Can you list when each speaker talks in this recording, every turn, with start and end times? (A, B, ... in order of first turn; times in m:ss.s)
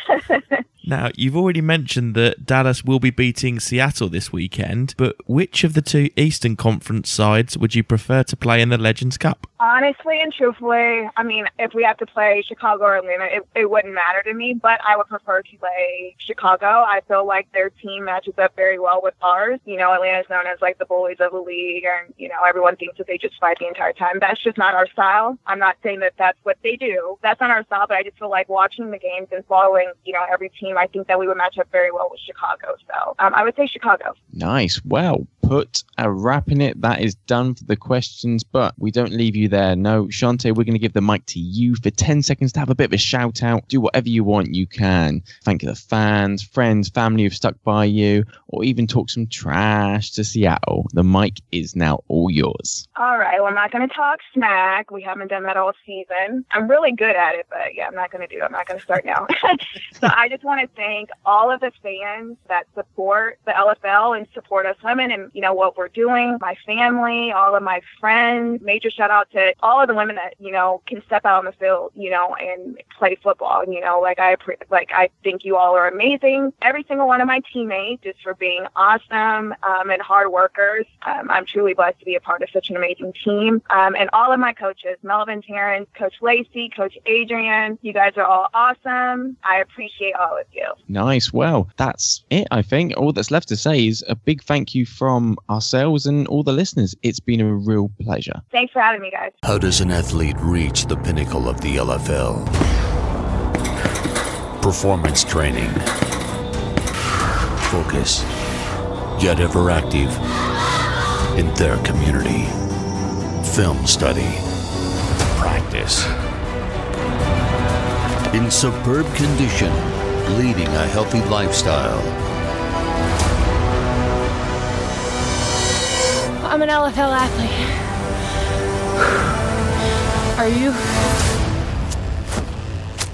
0:00.1-0:00.6 A
0:00.8-0:09.5 B
0:09.6-0:34.2 A
0:34.3-0:52.8 C
0:52.9-1:30.8 A
1:30.9-1:38.4 C
1:38.5-1:39.3 A
1:39.4-1:42.5 D
1:44.6-1:45.8 D
1:47.7-1:48.3 D
1:49.2-1:50.2 D
1:51.3-1:52.5 D
1:53.4-1:54.4 D
1:55.3-1:56.1 D
1:58.3-2:02.1 D
2:06.4-2:07.8 E
2:10.4-2:10.9 E